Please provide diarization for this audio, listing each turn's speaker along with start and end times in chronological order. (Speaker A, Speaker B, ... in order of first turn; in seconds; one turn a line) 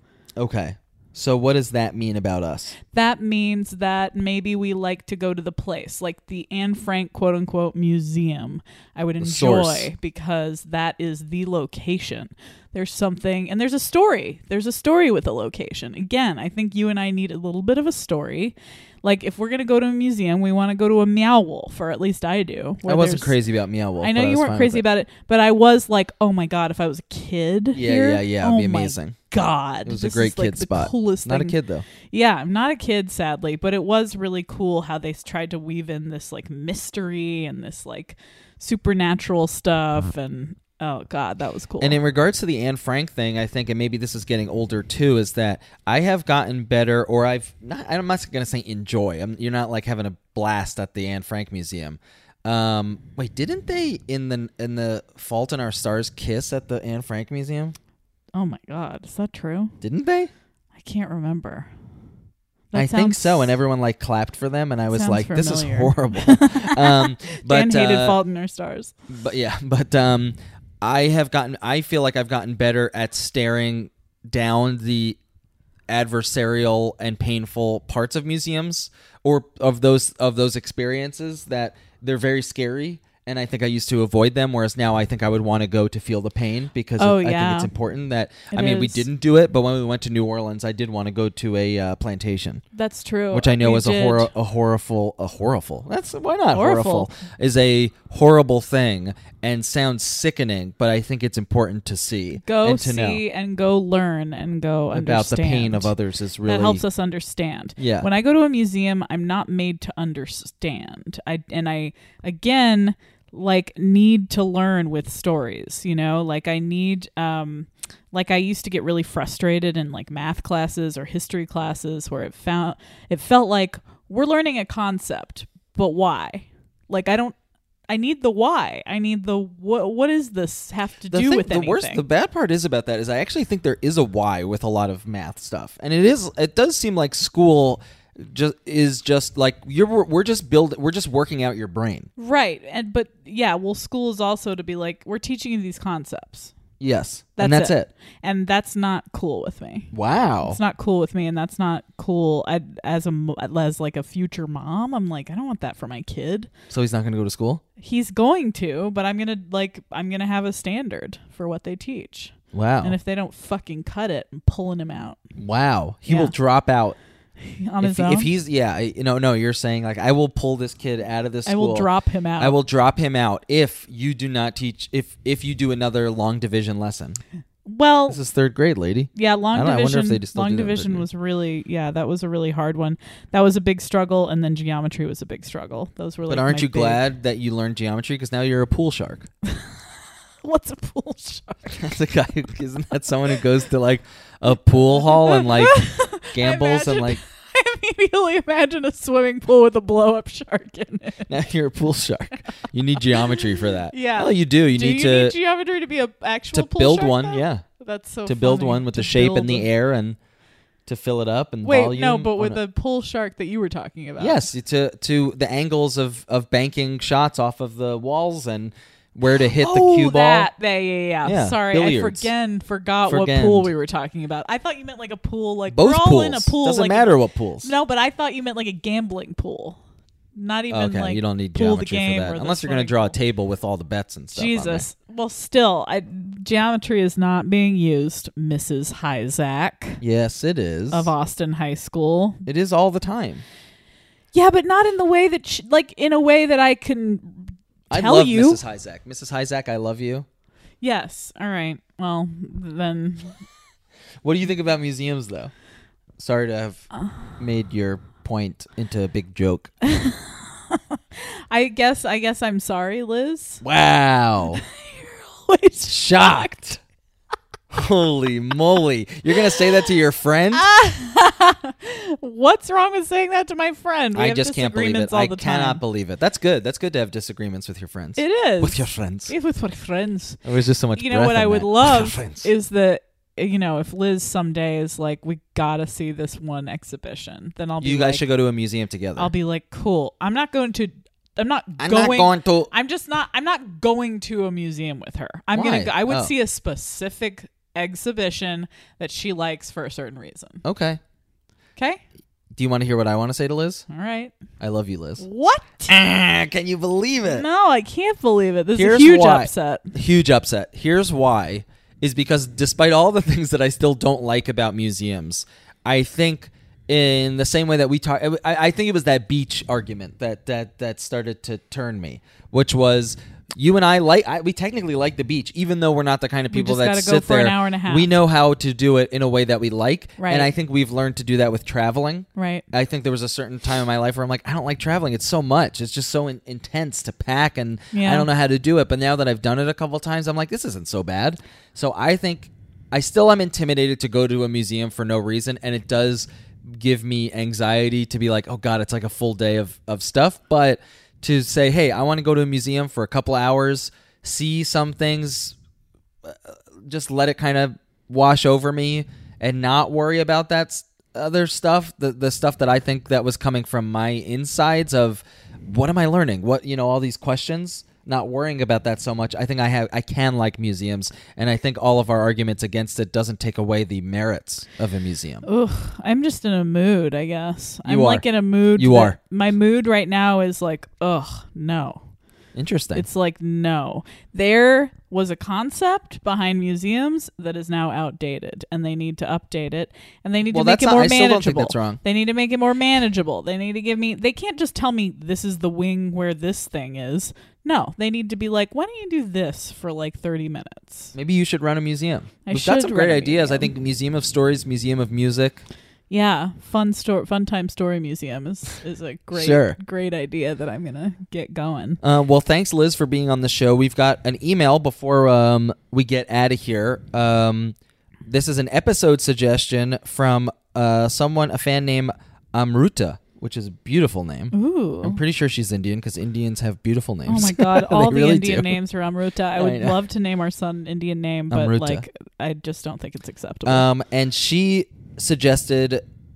Speaker A: 0.3-2.7
Speaker B: 2.9-23.4
Speaker A: 9.2-9.9
Speaker A: 22.8-24.8
Speaker B: 24.0-42.0
Speaker A: 27.7-29.1
Speaker A: 29.8-31.9
Speaker A: 41.8-57.7
Speaker B: 58.3-59.7
Speaker A: 59.8-60.3
Speaker B: 60.7-61.7
Speaker B: 62.7-63.6
Speaker A: 62.7-68.2
Speaker B: 64.9-68.9
Speaker A: 69.1-75.2
Speaker A: 75.9-92.6
Speaker B: 87.0-87.7
Speaker B: 88.5-89.0
Speaker B: 92.7-94.3
Speaker A: 93.3-103.2
Speaker B: 96.5-97.1
Speaker B: 102.3-105.9
Speaker A: 104.9-106.8
Speaker B: 106.4-127.3
Speaker A: 107.8-108.1
Speaker B: 127.9-132.0
Speaker A: 131.1-142.1
Speaker B: 142.2-146.5
Speaker A: 146.8-147.9
Speaker B: 147.3-149.9
Speaker A: 149.9-150.6
Speaker B: 150.4-156.5
Speaker A: 156.7-157.6
Speaker B: 157.8-165.2
Speaker A: 162.5-162.9
Speaker A: 165.3-167.0
Speaker B: 166.1-166.3
Speaker B: 167.4-168.3
Speaker A: 167.8-177.2
Speaker B: 171.4-172.5
Speaker B: 177.7-178.2
Speaker A: 178.1-181.1
Speaker B: 179.1-187.0
Speaker A: 186.3-189.2
Speaker B: 189.4-189.8
Speaker B: 190.4-191.9
Speaker A: 191.8-197.2
Speaker B: 195.1-201.3
Speaker A: 201.3-205.3
Speaker B: 203.1-209.7
Speaker A: 206.5-207.6
Speaker A: 208.2-210.2
Speaker A: 210.8-212.6
Speaker B: 211.6-214.4
Speaker A: 214.2-220.5
Speaker B: 219.4-229.8
Speaker A: 221.2-222.3
Speaker A: 223.1-223.7
Speaker A: 225.7-227.7
Speaker B: 230.3-233.1
Speaker A: 230.7-234.8
Speaker B: 234.3-240.0
Speaker A: 240.0-241.1
Speaker B: 240.9-242.4
Speaker A: 242.4-243.4
Speaker B: 244.3-248.6
Speaker A: 247.9-250.2
Speaker B: 250.8-253.4
Speaker A: 254.2-255.5
Speaker A: 256.2-256.9
Speaker A: 257.4-259.7
Speaker B: 259.8-261.0
Speaker B: 261.5-263.6
Speaker A: 263.6-264.6
Speaker B: 264.5-266.6
Speaker A: 265.9-266.8
Speaker A: 267.7-270.7
Speaker B: 270.5-275.8
Speaker A: 274.1-279.3
Speaker B: 278.2-280.4
Speaker A: 280.4-282.5
Speaker B: 280.9-288.2
Speaker A: 287.8-289.3
Speaker B: 289.2-300.6
Speaker A: 291.8-292.7
Speaker A: 295.5-296.3
Speaker A: 300.6-301.0
Speaker B: 301.8-302.0
Speaker A: 302.5-303.9
Speaker B: 303.9-304.3
Speaker A: 304.6-305.2
Speaker B: 305.2-305.9
Speaker A: 305.9-307.4
Speaker B: 307.2-309.9
Speaker A: 308.7-355.5
Speaker B: 326.5-328.1
Speaker B: 330.2-330.5
Speaker B: 332.4-332.6
Speaker B: 337.9-338.3
Speaker A: 356.2-375.4
Speaker B: 375.4-382.0
Speaker A: 377.8-378.2
Speaker A: 378.8-379.2
Speaker A: 382.5-383.1
Speaker B: 382.9-401.1
Speaker A: 390.5-392.0
Speaker A: 401.1-405.6
Speaker B: 402.4-403.7
Speaker B: 406.1-412.0
Speaker A: 409.3-409.8
Speaker A: 412.0-428.8
Speaker B: 424.5-425.2
Speaker B: 427.3-433.9
Speaker A: 429.6-430.0
Speaker A: 431.5-432.0
Speaker A: 433.6-436.0